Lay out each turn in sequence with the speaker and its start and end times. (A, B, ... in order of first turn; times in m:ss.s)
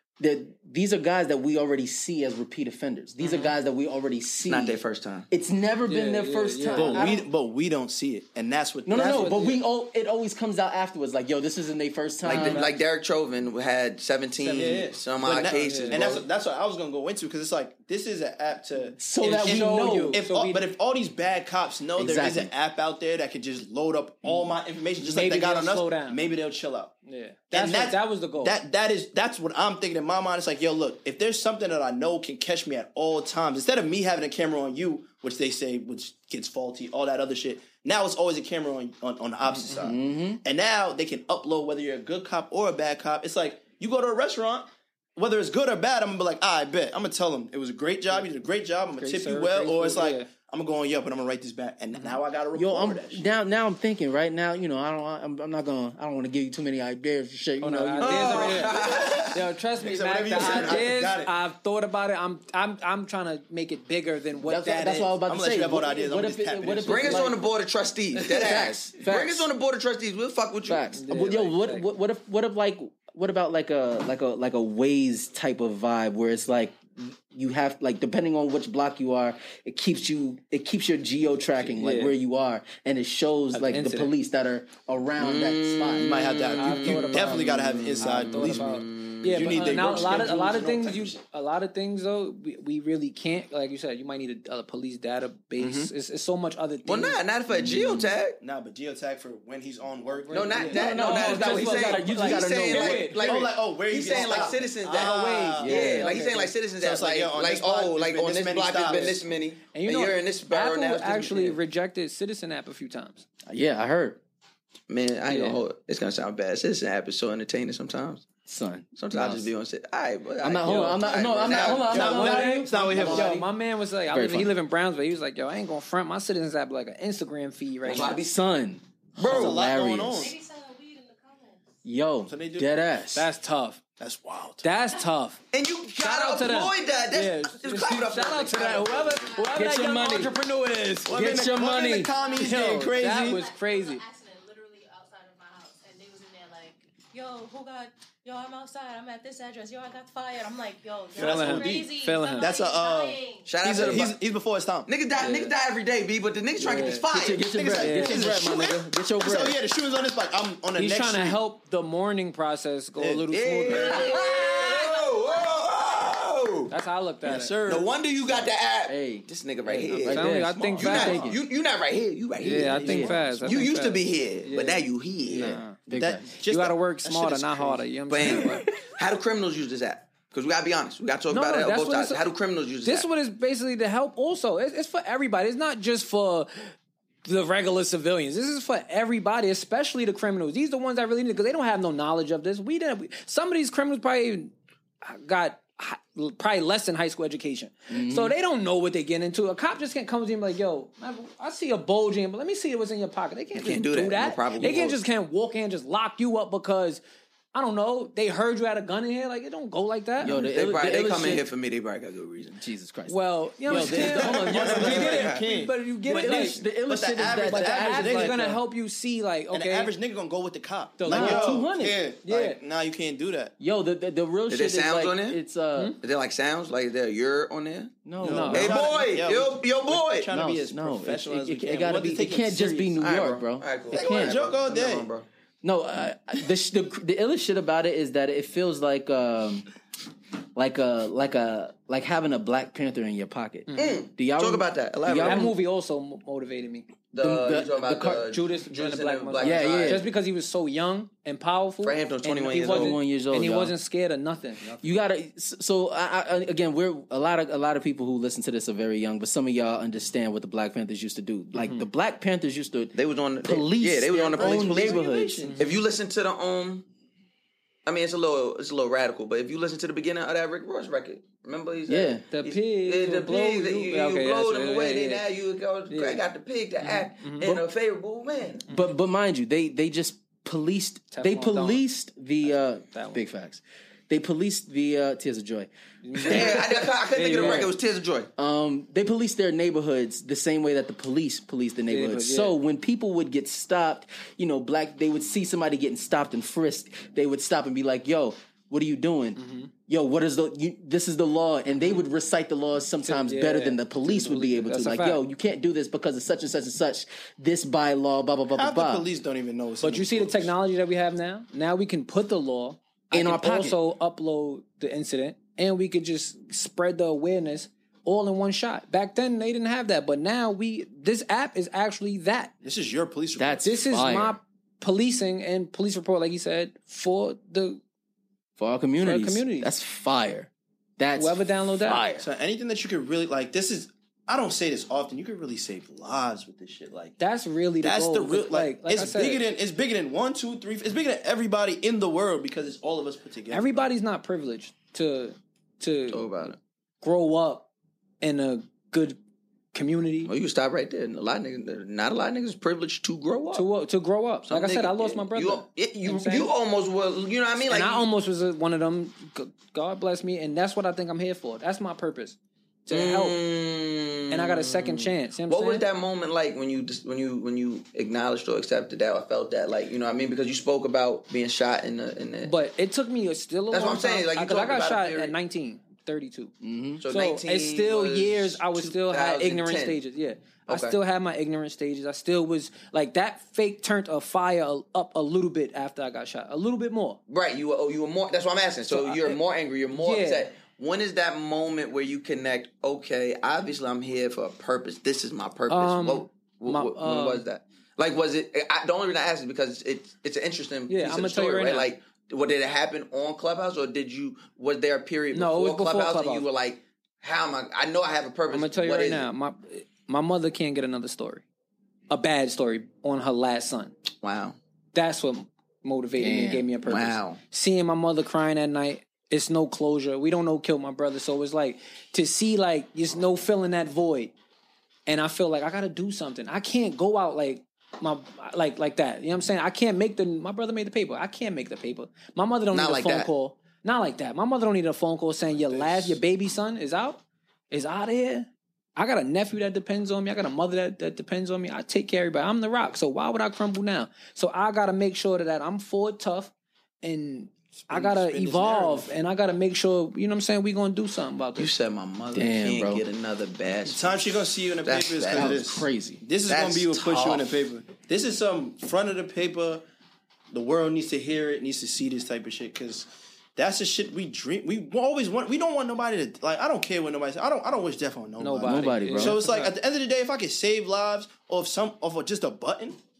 0:00.2-0:04.8 A
0:03.2-0:03.5 B
0:04.5-0:05.3 C
0:05.3-0:07.2 A
0:05.9-0:07.1 B
0:06.7-0:09.6 D
0:08.8-0:12.7 A
0:09.0-0:09.6 B
0:12.2-0:16.2 C
0:12.3-0:12.7 B
0:14.4-0:14.9 B
0:14.5-0:26.9 D
0:15.5-0:16.0 B
0:19.0-0:20.2 A
0:19.2-0:20.6 B
0:22.0-0:22.5 A
0:25.0-0:26.2 B
0:27.0-0:28.6 B
0:27.5-0:53.2 D
0:39.5-0:39.9 B
0:39.8-0:40.4 A
0:49.0-0:50.3 B
0:52.5-0:58.7 A
0:57.6-0:58.8 B
0:58.0-0:59.4 C
0:58.2-1:01.3 D
0:59.3-1:05.1 B
1:00.4-1:00.6 C
1:04.5-1:07.3 D
1:04.6-1:07.4 A
1:06.8-1:10.9 C
1:08.2-1:09.5 A
1:08.2-1:08.6 B
1:10.7-1:26.3 A
1:10.9-1:11.9 B
1:21.6-1:22.2 B
1:23.5-1:24.1 B
1:25.2-1:29.8 C
1:26.0-1:31.2 D
1:26.6-1:37.2 B
1:35.6-1:35.9 C
1:36.8-1:38.4 C
1:37.6-1:38.1 A
1:38.4-1:41.1 D
1:40.2-1:43.2 B
1:40.3-1:51.6 C
1:40.7-1:43.2 A
1:43.2-1:46.0 D
1:44.2-1:44.4 A
1:44.9-1:46.5 B
1:45.6-1:46.1 A
1:46.8-1:49.2 D
1:49.7-1:53.2 B
1:53.5-1:54.2 A
1:54.9-1:58.2 C
1:55.3-1:55.6 B
1:58.4-1:59.5 A
1:59.0-2:02.2 C
2:00.4-2:03.4 A
2:00.6-2:01.0 B
2:01.2-2:03.4 D
2:01.9-2:08.2 B
2:04.1-2:04.5 A
2:07.8-2:08.3 C
2:07.9-2:10.3 A
2:09.2-2:09.6 C
2:09.2-2:10.3 D
2:10.1-2:11.6 E
2:11.8-2:13.3 A
2:12.3-2:12.8 D
2:13.1-2:13.8 B
2:14.0-2:14.7 D
2:14.6-2:15.4 B
2:15.5-2:19.2 C
2:16.0-2:21.2 B
2:19.2-2:19.7 E
2:19.4-2:20.4 A
2:21.0-2:22.8 A
2:21.0-2:23.4 D
2:21.9-2:33.6 E
2:22.4-2:24.0 B
2:31.1-2:34.9 D
2:31.2-2:32.5 B
2:33.4-2:34.1 C
2:33.8-2:34.1 B
2:34.9-2:37.4 C
2:35.2-2:35.5 A
2:36.6-2:37.0 B
2:37.1-2:39.6 A
2:37.5-2:41.4 D
2:37.7-2:38.7 B
2:40.8-2:44.2 B
2:43.0-2:44.1 D
2:43.3-2:46.7 C
2:46.7-2:47.6 B
2:47.2-2:47.9 D
2:47.6-2:55.5 C
2:48.9-2:49.3 A
2:49.6-2:51.4 B
2:49.9-2:51.3 A
2:50.8-2:51.3 D
2:52.4-2:54.8 B
2:52.4-2:53.6 D
2:52.6-2:53.1 A
2:55.2-2:56.3 A
2:55.4-2:55.8 B
2:55.9-2:58.4 D
2:56.4-2:58.6 B
2:58.1-3:03.1 C
3:01.3-3:02.2 B
3:02.8-3:06.7 B
3:07.2-3:14.5 B
3:15.0-3:27.0 B
3:17.9-3:18.3 A
3:23.6-3:25.0 C
3:27.5-3:30.3 B
3:30.2-3:31.4 A
3:30.3-3:32.6 C
3:32.6-3:35.3 A
3:33.1-3:36.6 B
3:33.7-3:38.6 D
3:33.7-3:35.4 C
3:36.1-3:38.5 A
3:37.4-3:39.9 B
3:39.5-3:43.5 D
3:41.0-3:41.6 B
3:41.1-3:42.0 A
3:42.2-3:42.6 B
3:43.6-3:46.0 A
3:44.5-3:45.4 C
3:46.0-3:48.0 C
3:48.0-3:48.9 A
3:48.2-3:53.0 D
3:48.2-3:48.8 B
3:48.5-3:50.3 C
3:50.3-3:54.4 A
3:53.0-3:55.2 C
3:53.9-3:55.1 D
3:55.6-3:59.6 A
4:00.6-4:05.5 A
4:03.7-4:04.0 B
4:03.7-4:05.5 C
4:05.2-4:06.9 B
4:07.1-4:10.1 C
4:07.1-4:08.3 A
4:08.2-4:14.7 B
4:09.4-4:10.1 A
4:11.8-4:13.0 C
4:12.5-4:13.7 A
4:14.7-4:25.5 A
4:21.6-4:21.8 B
4:22.9-4:25.0 C
4:24.3-4:25.6 D
4:25.6-4:26.8 C
4:27.8-4:38.6 C
4:31.9-4:32.2 A
4:32.3-4:35.2 B
4:35.9-4:36.2 B
4:36.8-4:37.4 B
4:38.7-4:46.8 A
4:41.1-4:41.8 B
4:42.4-4:43.2 B
4:46.0-4:47.7 B
4:46.2-4:48.3 C
4:47.3-4:47.7 A
4:48.4-5:09.0 A
4:51.9-4:52.6 B
4:59.4-4:59.7 B
5:03.0-5:05.2 B
5:08.5-5:10.5 D
5:09.8-5:22.5 B
5:13.1-5:13.8 A
5:22.6-5:23.7 D
5:23.4-5:24.4 A
5:23.6-5:27.8 B
5:28.6-5:32.3 A
5:29.0-5:29.7 B
5:31.1-5:32.2 B
5:32.2-5:37.2 D
5:37.2-5:39.4 B
5:37.8-5:43.8 D
5:43.5-5:47.7 B
5:46.1-5:46.6 C
5:48.2-5:49.2 B
5:49.7-5:50.3 B
5:50.2-5:53.7 C
5:53.5-5:56.5 B
5:54.5-5:58.1 C
5:57.7-6:03.4 B
6:02.9-6:12.5 C
6:04.3-6:05.8 B
6:12.4-6:16.5 B
6:13.7-6:15.4 C
6:16.6-6:17.0 A
6:17.0-6:20.0 C
6:17.1-6:27.2 B
6:20.7-6:21.0 C
6:27.3-6:49.3 C
6:28.9-6:29.4 B
6:29.9-6:30.5 B
6:35.7-6:37.4 B
6:40.9-6:41.9 B
6:45.3-6:46.4 B
6:48.5-6:51.4 B
6:52.1-6:53.9 B
6:54.2-6:54.6 C
6:54.9-7:04.3 B
6:56.2-6:56.7 A
6:56.8-6:57.4 C
7:05.0-7:31.7 B
7:12.7-7:13.3 C
7:15.5-7:16.2 D
7:27.8-7:29.1 D
7:31.6-7:35.6 C
7:32.3-7:33.0 A
7:33.9-7:39.8 D
7:35.2-7:36.2 A
7:36.5-7:37.5 C
7:40.5-7:53.0 D
7:48.4-7:49.7 B
7:48.6-7:49.4 A